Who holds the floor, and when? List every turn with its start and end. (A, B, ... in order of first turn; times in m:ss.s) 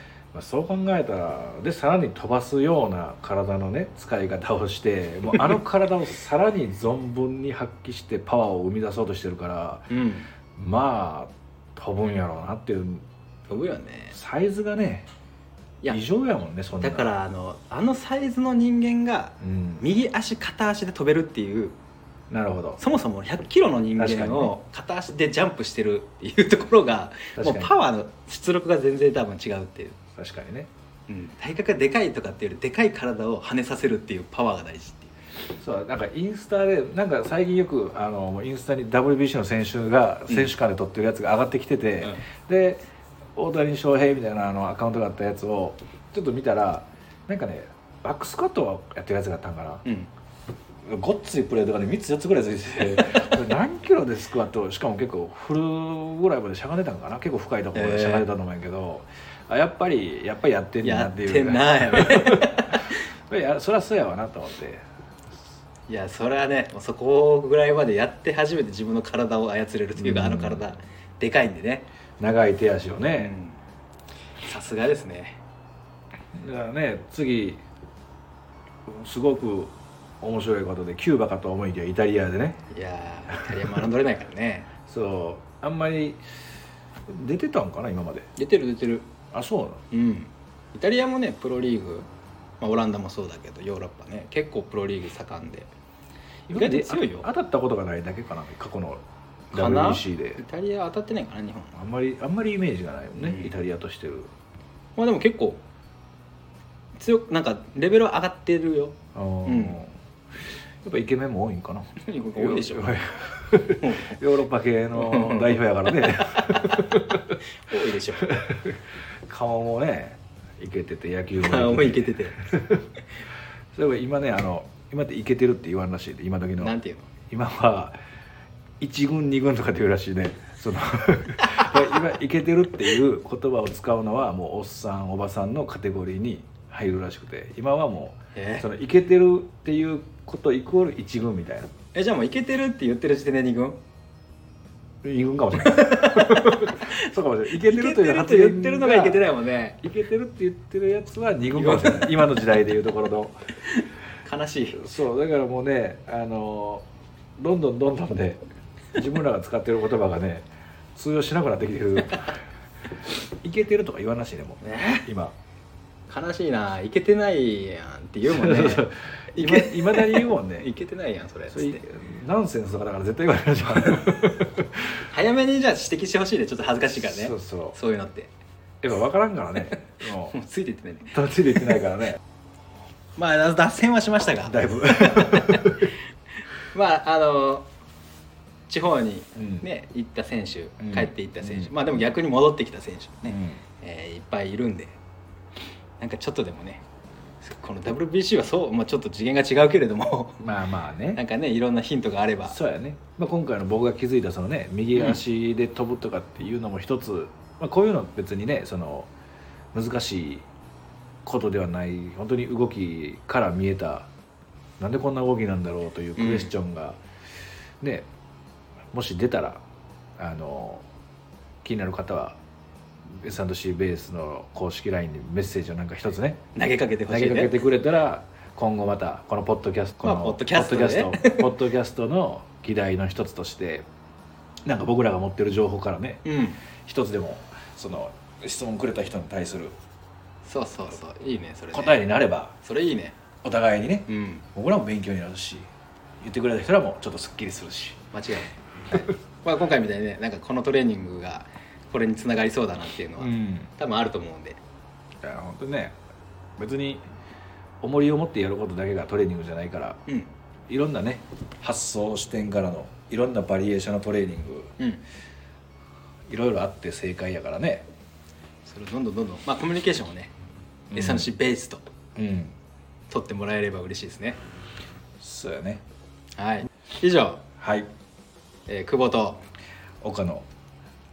0:00.3-0:09.9 A
0:09.9-0:10.3 B
0:10.6-0:13.0 A
0:13.5-0:14.2 B
0:14.1-0:15.1 A
0:15.9-0:17.2 A
0:16.8-0:21.8 B
0:19.4-0:19.8 A
0:22.3-0:22.8 A
0:22.8-0:30.0 B
0:24.0-0:24.5 A
0:27.4-0:27.7 A
0:30.2-0:30.7 A
0:31.1-0:35.1 B
0:35.6-0:42.8 A
0:43.4-0:49.8 A
0:50.8-1:02.8 A
0:57.7-0:58.3 B
1:00.8-1:03.0 B
1:03.3-1:04.8 A
1:05.9-1:11.9 B
1:10.0-1:10.6 A
1:12.2-1:13.3 A
1:13.2-1:13.6 B
1:14.4-1:15.4 B
1:16.3-1:17.6 A
1:18.9-1:22.6 A
1:22.7-1:24.7 B
1:24.9-1:26.2 A
1:27.1-1:28.3 A
1:28.4-1:29.1 B
1:29.3-1:29.8 A
1:29.9-1:32.1 B
1:32.6-1:35.7 B
1:36.5-1:39.0 A
1:36.5-1:37.3 B
1:39.5-1:41.8 B
1:39.5-1:40.4 A
1:41.7-1:44.3 A
1:43.2-1:43.5 B
1:45.0-1:45.6 B
1:47.0-1:49.8 B
1:49.2-1:50.0 A
1:50.8-1:57.2 A
1:52.0-1:53.0 B
1:53.7-1:54.2 B
1:55.0-1:58.4 B
1:58.2-2:02.8 A
2:01.4-2:02.6 B
2:03.7-2:06.8 A
2:06.6-2:07.1 B
2:07.3-2:08.0 A
2:08.8-2:21.7 A
2:11.5-2:11.8 B
2:18.4-2:18.7 B
2:21.9-2:23.8 B
2:25.0-2:29.3 A
2:25.7-2:29.8 B
2:29.8-2:33.4 A
2:31.5-2:32.2 B
2:33.7-2:34.8 B
2:34.7-2:36.8 A
2:37.4-2:38.4 A
2:38.9-2:42.4 A
2:43.2-2:45.4 A
2:44.6-2:45.1 B
2:46.1-2:51.8 B
2:48.2-2:50.7 A
2:51.5-2:54.8 A
2:55.1-2:58.3 B
2:57.0-2:57.8 A
2:58.8-3:00.4 A
2:59.7-3:01.8 B
3:01.1-3:02.2 A
3:03.2-3:05.9 B
3:04.4-3:05.9 A
3:06.7-3:07.7 B
3:08.7-3:15.0 B
3:09.4-3:09.7 A
3:10.8-3:12.0 A
3:13.2-3:13.6 A
3:16.0-3:16.8 B
3:17.4-3:20.4 B
3:20.4-3:21.2 A
3:21.1-3:22.6 B
3:22.5-3:29.1 A
3:25.0-3:25.2 B
3:29.7-3:30.5 A
3:31.2-3:34.1 A
3:34.8-3:37.0 A
3:36.2-3:36.5 B
3:37.8-3:38.1 A
3:38.9-3:39.6 A
3:40.2-3:40.9 A
3:41.6-3:42.4 A
3:43.2-3:46.4 A
3:46.6-3:47.6 B
3:47.1-3:53.9 A
3:50.0-3:51.5 B
3:54.7-3:56.2 A
3:56.2-3:56.6 B
3:56.8-3:59.8 A
4:00.4-4:02.0 B
4:01.7-4:02.5 A
4:02.6-4:03.2 B
4:03.4-4:05.7 A
4:04.1-4:04.4 B
4:06.2-4:08.0 A
4:08.1-4:14.6 B
4:13.2-4:13.7 A
4:15.2-4:16.0 A
4:16.6-4:17.0 A
4:17.8-4:20.0 A
4:20.7-4:24.7 A
4:26.3-4:27.9 A
4:28.6-4:30.3 B
4:30.9-4:31.8 B
4:30.9-4:31.3 A
4:32.2-4:32.6 A
4:33.1-4:34.4 B
4:35.2-4:35.8 A
4:36.4-4:37.4 B
4:37.6-4:37.9 A
4:38.7-4:39.4 B
4:40.0-4:40.5 A